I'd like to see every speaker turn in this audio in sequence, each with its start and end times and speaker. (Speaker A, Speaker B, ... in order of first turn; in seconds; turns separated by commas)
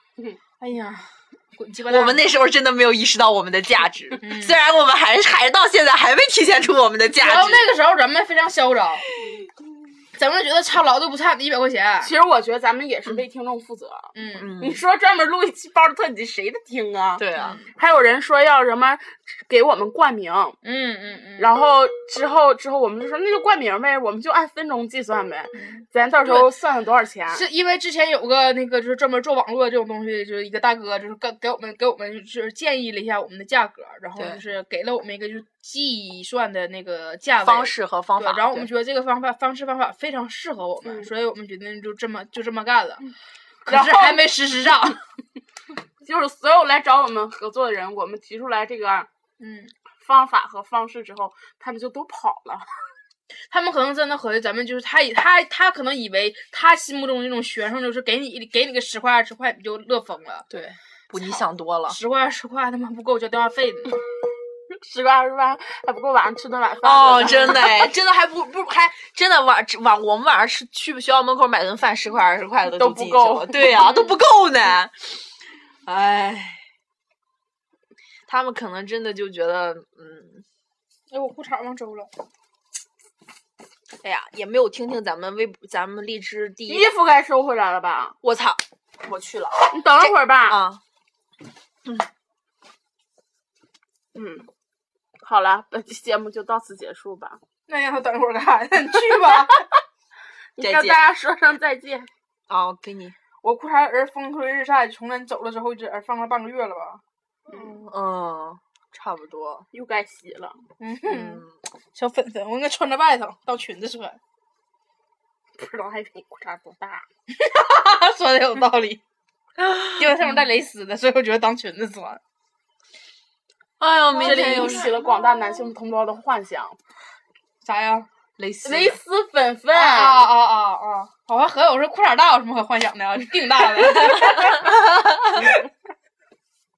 Speaker A: 0.6-2.2, Speaker B: 1.9-7.7, Speaker A: 4.2-4.6, Speaker A: 7.1-9.1, Speaker A: 10.2-12.1, Speaker C: 12.0-20.6, Speaker A: 14.1-14.6, Speaker B: 14.3-14.8, Speaker B: 17.2-17.6, Speaker A: 17.4-17.6, Speaker A: 20.6-21.5, Speaker C: 21.4-27.4, Speaker A: 25.6-26.5, Speaker A: 27.3-43.1, Speaker B: 34.2-34.4, Speaker B: 37.4-38.7, Speaker A: 43.7-45.0, Speaker C: 43.7-44.2, Speaker C: 46.0-49.1, Speaker A: 49.4-49.7, Speaker C: 50.0-52.9, Speaker A: 53.5-60.5, Speaker B: 60.5-62.0, Speaker A: 61.9-64.0, Speaker C: 64.7-67.9, Speaker B: 66.8-75.2, Speaker C: 72.6-73.9, Speaker B: 75.8-76.6, Speaker B: 78.3-80.5, Speaker A: 81.1-82.1, Speaker B: 84.0-86.9, Speaker C: 86.7-88.2, Speaker B: 88.2-90.8, Speaker C: 89.7-90.6, Speaker C: 94.2-94.5, Speaker C: 95.2-97.4, Speaker A: 97.7-99.7, Speaker C: 100.6-102.1, Speaker B: 100.6-101.0, Speaker B: 102.5-103.2, Speaker A: 103.4-107.0, Speaker B: 107.5-109.7, Speaker C: 109.7-110.6, Speaker A: 110.8-114.2, Speaker B: 111.1-111.5, Speaker C: 115.5-117.1, Speaker A: 117.3-119.0, Speaker A: 119.9-122.2, Speaker B: 123.8-125.0, Speaker A: 124.1-125.0, Speaker C: 124.2-126.8, Speaker A: 127.6-128.1, Speaker B: 128.4-129.0, Speaker C: 128.6-130.3, Speaker A: 129.7-134.8, Speaker B: 134.3-134.7, Speaker A: 135.3-135.6